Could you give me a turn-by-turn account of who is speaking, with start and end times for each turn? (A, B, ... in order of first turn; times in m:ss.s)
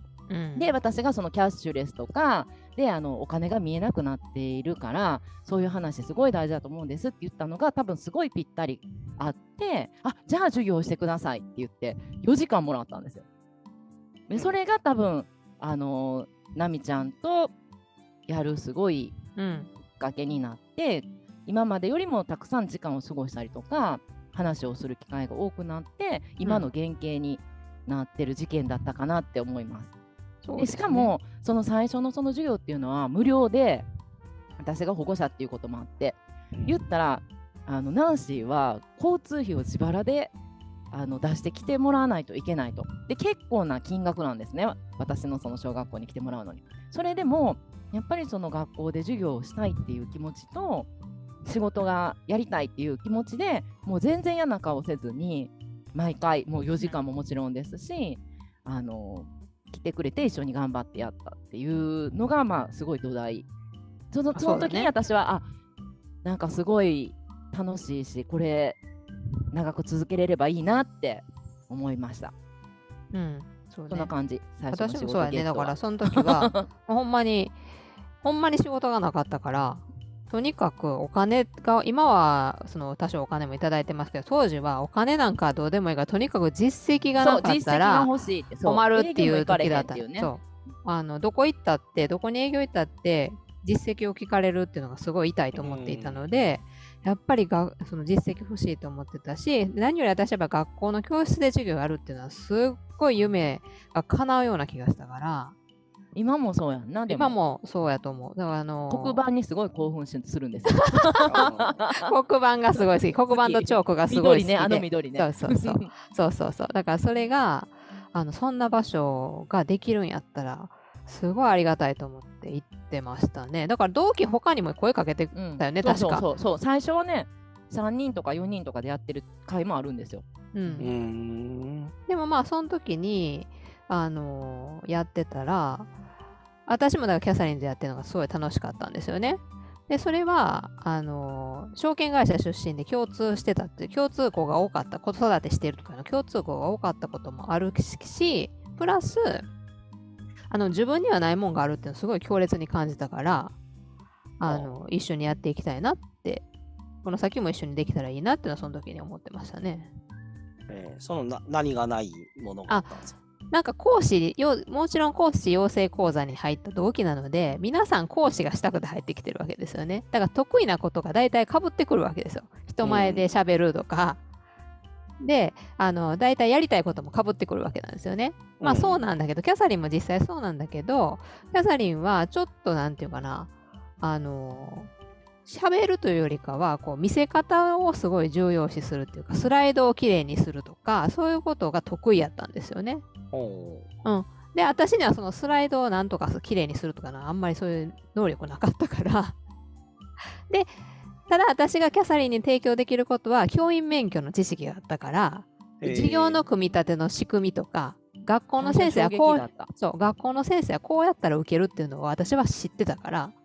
0:00.3-0:00.7 A
0:00.6-0:13.2 B
0:14.3-0:17.5 B
0:18.3-0:19.1 B
0:19.4-0:19.7 A
0:20.0-0:29.9 B
0:26.4-0:26.7 A
0:30.4-0:31.1 A
0:30.6-0:33.9 B
0:34.6-0:40.3 B
0:36.5-0:36.8 C
0:40.9-0:50.9 B
0:51.4-1:03.5 B
1:04.1-1:05.4 B
1:04.4-1:04.9 A
1:06.2-1:08.8 B
1:09.5-1:12.3 B
1:13.1-1:14.1 A
1:13.9-1:16.7 B
1:14.7-1:17.6 A
1:18.2-1:28.1 A
1:27.2-1:30.3 B
1:28.6-1:45.5 A
1:35.5-1:36.2 C
1:46.1-1:47.4 B
1:47.1-1:49.2 A
1:48.9-1:52.1 B
1:50.8-1:51.5 A
1:51.3-1:51.7 C
1:52.0-2:06.3 A
1:53.3-1:55.9 B
2:05.3-2:10.8 B
2:10.5-2:10.9 A
2:10.8-2:11.9 C
2:12.1-2:15.9 A
2:16.7-2:29.5 A
2:30.5-2:33.5 A
2:34.4-2:36.4 A
2:34.4-2:34.7 C
2:37.0-2:39.9 A
2:40.7-2:43.1 C
2:42.7-2:43.0 A
2:43.5-2:54.2 A
2:52.8-2:53.3 C
2:55.2-3:04.9 A
2:58.6-2:59.0 C
3:05.5-3:13.0 A
3:13.3-3:13.9 C
3:14.0-3:19.4 A
3:20.5-3:20.8 A
3:21.3-3:33.4 A
3:25.8-3:26.4 C
3:28.6-3:29.7 B